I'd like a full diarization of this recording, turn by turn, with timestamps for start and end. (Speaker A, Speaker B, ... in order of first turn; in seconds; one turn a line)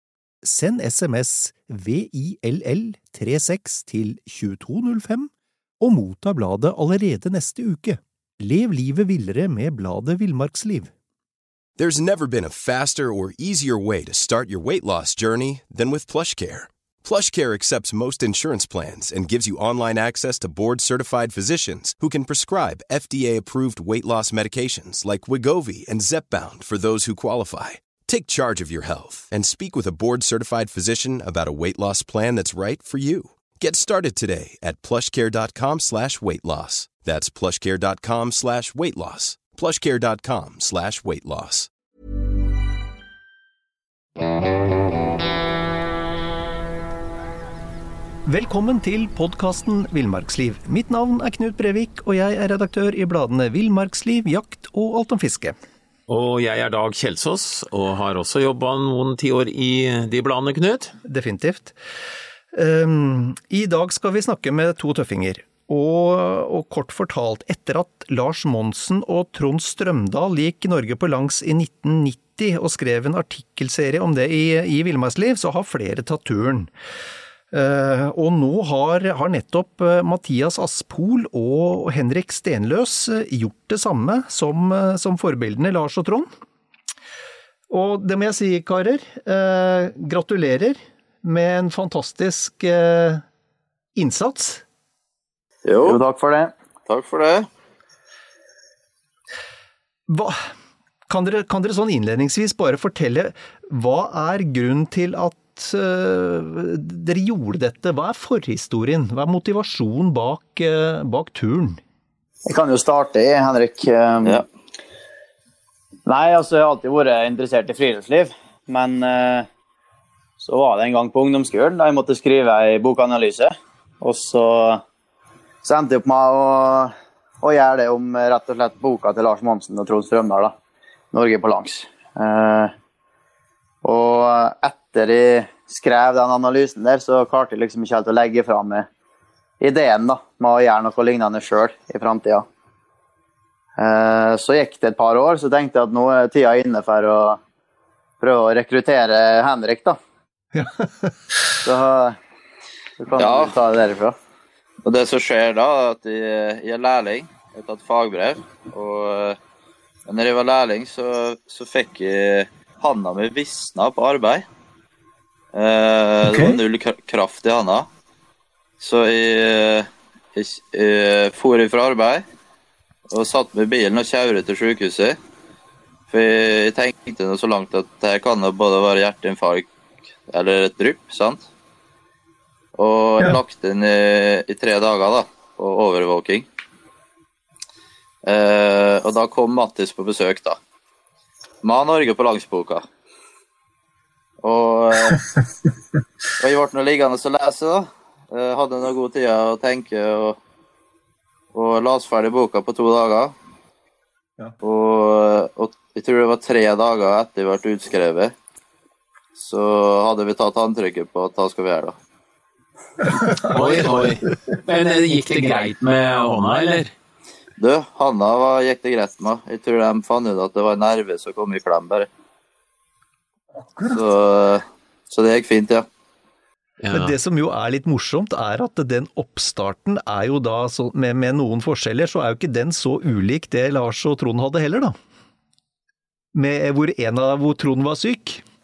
Speaker A: 0.4-10.9
Speaker B: 11.8-41.7
Speaker A: 48.2-55.5
Speaker C: 56.1-60.9
Speaker A: 61.0-61.8
Speaker A: 62.5-76.7
Speaker A: 77.5-86.3
Speaker A: 87.7-93.2
Speaker A: 94.0-94.6
Speaker D: 95.6-96.0
Speaker E: 95.8-96.5
Speaker D: 96.8-97.5
Speaker A: 100.1-100.4
Speaker A: 101.1-111.8
Speaker E: 112.5-114.4
Speaker E: 116.0-119.5
Speaker E: 120.4-124.8
Speaker E: 125.6-130.5
Speaker E: 131.1-132.7
Speaker E: 133.8-138.9
Speaker E: 139.6-142.4
Speaker E: 143.8-147.4
Speaker E: 148.2-150.0
Speaker A: 150.5-151.3
Speaker E: 151.6-152.2
Speaker E: 153.0-154.2
Speaker D: 153.1-153.6
Speaker D: 154.8-159.4
Speaker D: 160.1-164.5
Speaker D: 165.5-167.9
Speaker A: 166.2-166.6
Speaker D: 168.8-172.2
Speaker D: 173.1-175.2
Speaker D: 176.1-179.7
Speaker D: 180.3-181.5
Speaker D: 182.7-186.5
Speaker D: 188.2-190.6
Speaker D: 191.6-192.9
Speaker D: 194.4-195.3
Speaker D: 196.4-200.4
Speaker D: 201.5-203.3
Speaker D: 204.6-208.3
Speaker D: 209.3-212.0
Speaker C: 213.4-216.9
Speaker D: 217.6-222.1
Speaker D: 223.8-225.8
Speaker C: 226.8-227.1
Speaker A: 226.9-234.9
Speaker A: 236.3-238.4